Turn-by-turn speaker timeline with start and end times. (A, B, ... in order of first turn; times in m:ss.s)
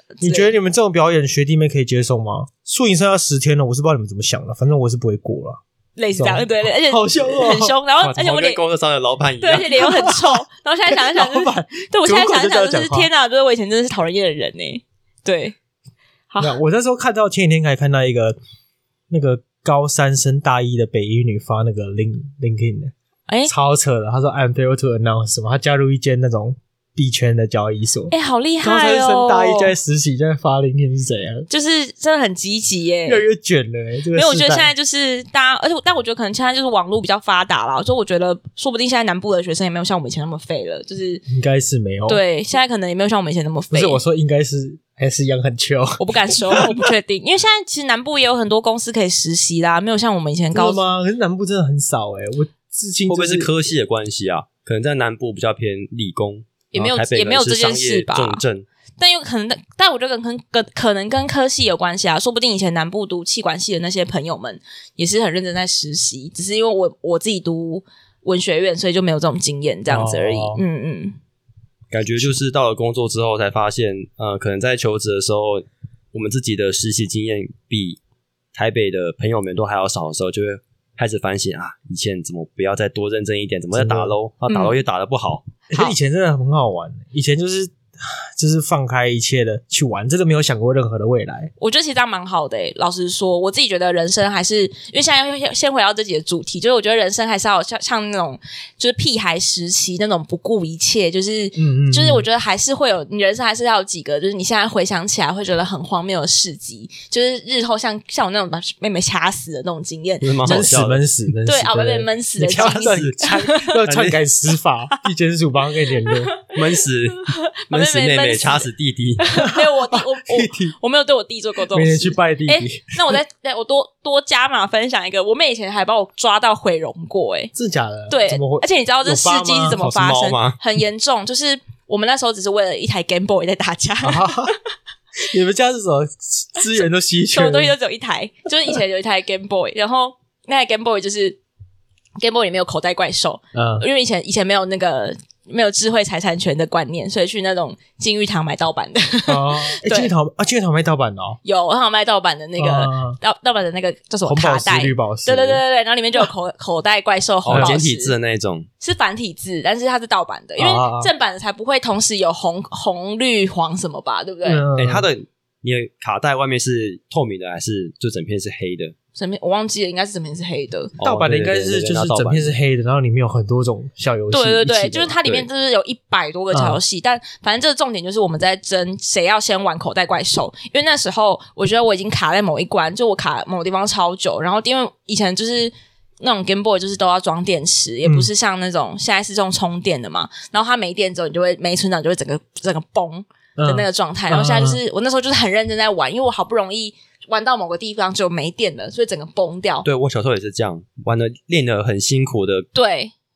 0:00.2-0:00.5 A
0:00.2-0:05.6 B
0:06.0-0:08.6 A
0:06.2-0:08.2 B
0:08.1-0:09.8 C
0:09.4-0:15.6 A
0:09.8-0:10.4 B
0:10.9-0:13.1 B
0:16.3-0:16.6 A
0:16.4-0:18.4 B
0:19.1-0:22.9 B
0:23.5-0:31.5 B
0:28.1-0:29.7 A
0:31.5-0:33.2 A
0:33.1-0:34.7 B
0:34.1-0:41.2 A
0:41.3-0:42.2 B
0:42.1-0:44.0 A
0:43.7-0:46.8 B
0:46.0-0:50.8 A
0:50.5-0:53.6 B
0:53.1-0:58.7 C
0:56.7-0:58.4 A
0:59.0-1:11.2 A
1:09.9-1:10.6 B
1:11.9-1:18.0 C
1:18.5-1:25.5 C
1:23.7-1:24.2 B
1:24.5-1:24.8 A
1:25.7-1:31.5 B
1:31.6-1:50.7 A
1:41.6-1:42.2 B
1:50.2-1:51.0 C
1:50.4-1:56.3 B
1:51.5-1:53.8 A
1:52.5-1:53.2 C
1:53.8-1:54.2 C
1:56.1-2:07.5 A
1:56.6-1:59.2 C
1:59.4-2:00.8 B
2:01.7-2:03.2 B
2:07.5-2:09.8 B
2:08.1-2:14.6 A
2:09.7-2:10.6 C
2:14.0-2:14.5 B
2:15.2-2:17.7 B
2:17.3-2:21.4 A
2:22.2-2:30.1 A
2:23.5-2:23.9 B
2:29.3-2:31.4 B
2:31.4-2:38.1 A
2:32.6-2:33.2 B
2:34.3-2:35.6 B
2:37.4-2:38.7 C
2:37.5-2:37.8 B
2:38.8-2:44.7 A
2:40.6-2:41.1 B
2:44.4-2:45.1 B
2:44.8-2:48.9 C
2:49.2-2:50.9 A
2:50.9-2:52.6 C
2:51.0-2:55.5 B
2:54.3-3:19.9 A
2:56.5-2:56.8 B
3:13.6-3:14.8 B
3:19.8-3:22.7 C
3:22.8-3:23.1 A